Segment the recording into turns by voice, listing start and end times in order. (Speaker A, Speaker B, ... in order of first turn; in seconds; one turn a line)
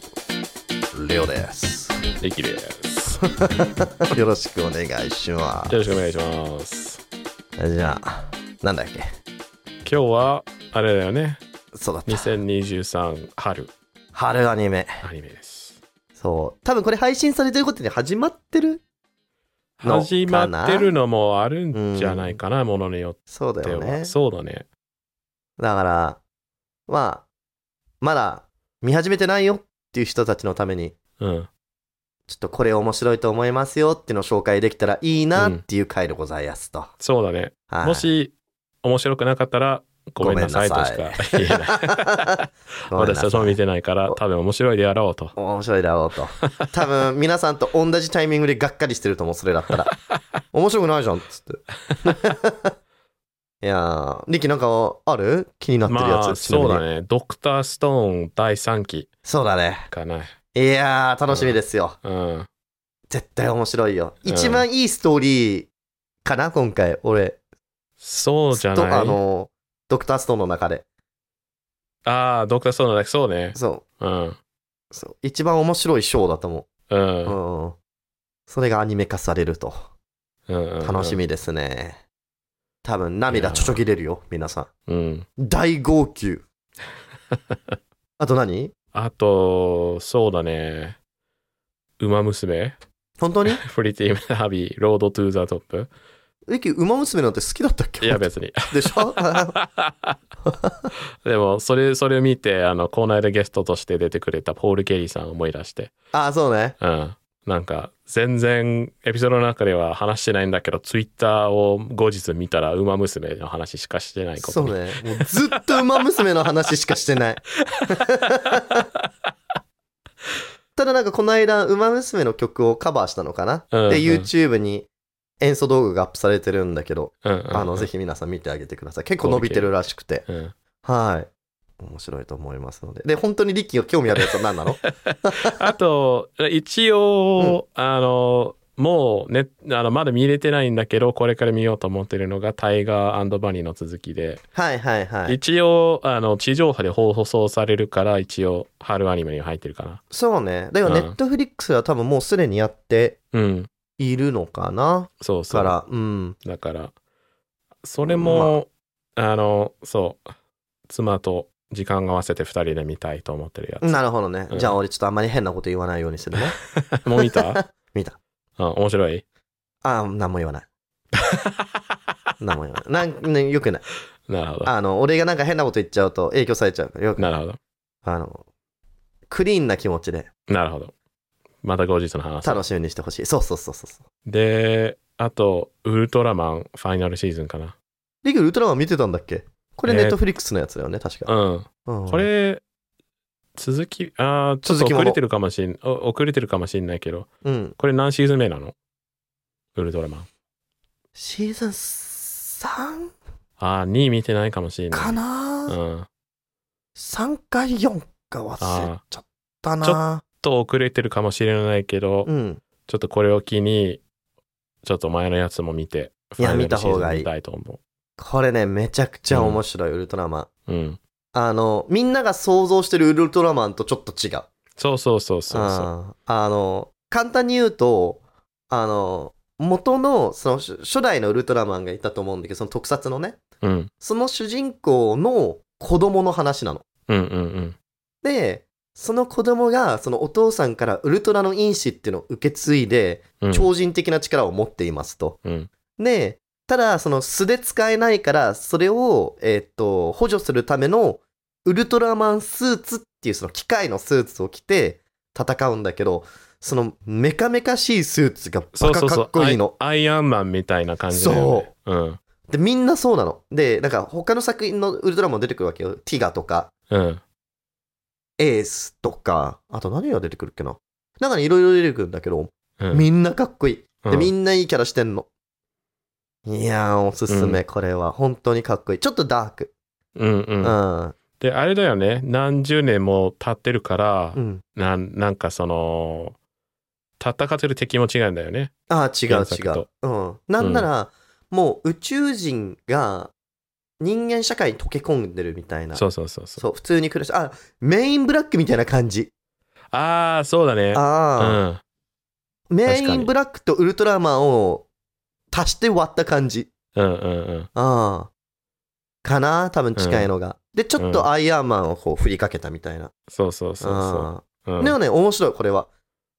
Speaker A: 0.9-1.9
Speaker B: 2.2-3.2
Speaker A: 3.2-5.8
Speaker B: 5.7-7.0
Speaker A: 7.6-9.1
Speaker B: 9.8-11.4
Speaker A: 11.7-12.4
Speaker B: 12.1-13.7
Speaker A: 14.1-15.0
Speaker B: 15.0-15.8
Speaker A: 16.1-18.8
Speaker B: 19.8-24.6
Speaker A: 19.8-20.9
Speaker A: 21.7-22.4
Speaker A: 23.3-24.1
Speaker A: 25.6-26.2
Speaker A: 26.9-27.2
Speaker A: 28.0-30.9
Speaker B: 31.2-31.5
Speaker A: 32.3-36.9
Speaker B: 35.4-35.6
Speaker B: 37.0-45.3
Speaker A: 37.7-38.1
Speaker A: 40.2-44.2
Speaker A: 45.4-49.9
Speaker B: 46.4-46.7
Speaker A: 50.5-52.7
Speaker A: 53.6-56.8
Speaker B: 55.9-59.1
Speaker A: 59.2-59.9
Speaker B: 59.9-60.3
Speaker A: 60.5-62.0
Speaker B: 61.3-62.5
Speaker A: 63.1-65.7
Speaker B: 64.2-64.6
Speaker A: 66.2-67.4
Speaker B: 68.0-69.2
Speaker A: 68.5-70.8
Speaker B: 72.0-74.4
Speaker A: 73.5-73.8
Speaker A: 74.9-76.7
Speaker B: 76.9-77.3
Speaker A: 77.2-77.8
Speaker A: 78.5-79.8
Speaker B: 80.5-81.2
Speaker A: 80.8-82.0
Speaker A: 82.8-84.7
Speaker B: 83.3-83.8
Speaker B: 84.9-85.3
Speaker A: 85.4-86.4
Speaker B: 87.3-87.7
Speaker A: 88.2-88.7
Speaker B: 88.9-91.0
Speaker B: 92.0-92.8
Speaker A: 93.2-93.6
Speaker B: 93.5-95.9
Speaker A: 96.5-99.5
Speaker B: 98.0-100.2
Speaker A: 100.5-100.9
Speaker B: 101.2-105.9
Speaker A: 106.1-106.8
Speaker B: 106.8-115.2
Speaker A: 114.4-118.8
Speaker A: 120.8-124.9
Speaker B: 123.7-124.3
Speaker A: 125.4-130.2
Speaker B: 127.2-127.9
Speaker B: 129.2-129.7
Speaker B: 130.3-130.5
Speaker A: 130.8-131.3
Speaker A: 131.8-135.5
Speaker B: 134.8-144.4
Speaker A: 144.5-145.4
Speaker B: 145.3-150.0
Speaker A: 150.1-153.2
Speaker B: 150.8-151.1
Speaker B: 153.3-153.7
Speaker A: 154.0-156.4
Speaker B: 155.2-155.8
Speaker B: 156.4-156.9
Speaker B: 157.8-160.3
Speaker A: 158.0-158.6
Speaker B: 160.9-164.8
Speaker A: 163.8-166.6
Speaker B: 166.7-167.6
Speaker A: 167.2-168.2
Speaker B: 168.6-169.2
Speaker A: 169.8-170.6
Speaker B: 171.2-171.8
Speaker A: 172.4-173.8
Speaker B: 174.3-174.7
Speaker A: 174.7-177.3
Speaker B: 177.2-177.6
Speaker A: 178.0-178.4
Speaker A: 179.3-180.3
Speaker B: 180.5-180.9
Speaker B: 181.6-182.6
Speaker A: 182.4-184.0
Speaker B: 184.2-187.7
Speaker A: 188.2-191.3
Speaker B: 189.8-190.2
Speaker B: 191.2-192.6
Speaker A: 191.8-192.3
Speaker B: 193.6-198.7
Speaker A: 194.6-195.2
Speaker A: 197.4-197.8
Speaker B: 199.7-200.3
Speaker A: 201.2-203.1
Speaker B: 203.6-206.1
Speaker A: 204.9-205.8
Speaker A: 206.9-210.2
Speaker B: 208.6-209.0
Speaker B: 209.8-212.3
Speaker A: 212.2-212.6
Speaker B: 212.9-214.0
Speaker B: 214.8-217.8
Speaker A: 216.4-217.3
Speaker A: 218.2-220.5
Speaker B: 219.3-219.6
Speaker B: 220.7-221.0
Speaker A: 221.3-224.5
Speaker B: 224.8-225.9
Speaker A: 225.5-233.4
Speaker B: 233.6-233.9
Speaker A: 234.0-236.8
Speaker B: 237.1-237.8
Speaker A: 238.2-245.4
Speaker B: 243.4-243.7
Speaker B: 245.4-245.7
Speaker A: 246.0-259.7
Speaker B: 258.7-262.2
Speaker A: 261.1-261.7
Speaker A: 262.5-266.7
Speaker B: 266.9-267.2
Speaker A: 268.4-275.3
Speaker B: 272.8-273.1
Speaker B: 274.0-274.3
Speaker A: 276.4-279.7
Speaker B: 277.3-277.6
Speaker B: 280.1-280.8
Speaker A: 280.6-281.1
Speaker B: 281.4-286.4
Speaker A: 284.3-284.6
Speaker B: 287.2-288.7
Speaker A: 288.9-293.3
Speaker B: 289.3-289.9
Speaker B: 290.6-290.9
Speaker A: 294.0-296.0
Speaker B: 295.9-296.6
Speaker A: 296.6-299.3
Speaker B: 299.9-301.8
Speaker A: 300.9-301.6
Speaker A: 302.7-304.9
Speaker B: 302.9-303.3
Speaker A: 305.5-306.7
Speaker B: 306.9-307.7
Speaker A: 307.7-308.3
Speaker A: 309.2-313.1
Speaker B: 309.9-310.3
Speaker B: 311.0-311.3
Speaker B: 313.3-314.9
Speaker A: 313.8-315.9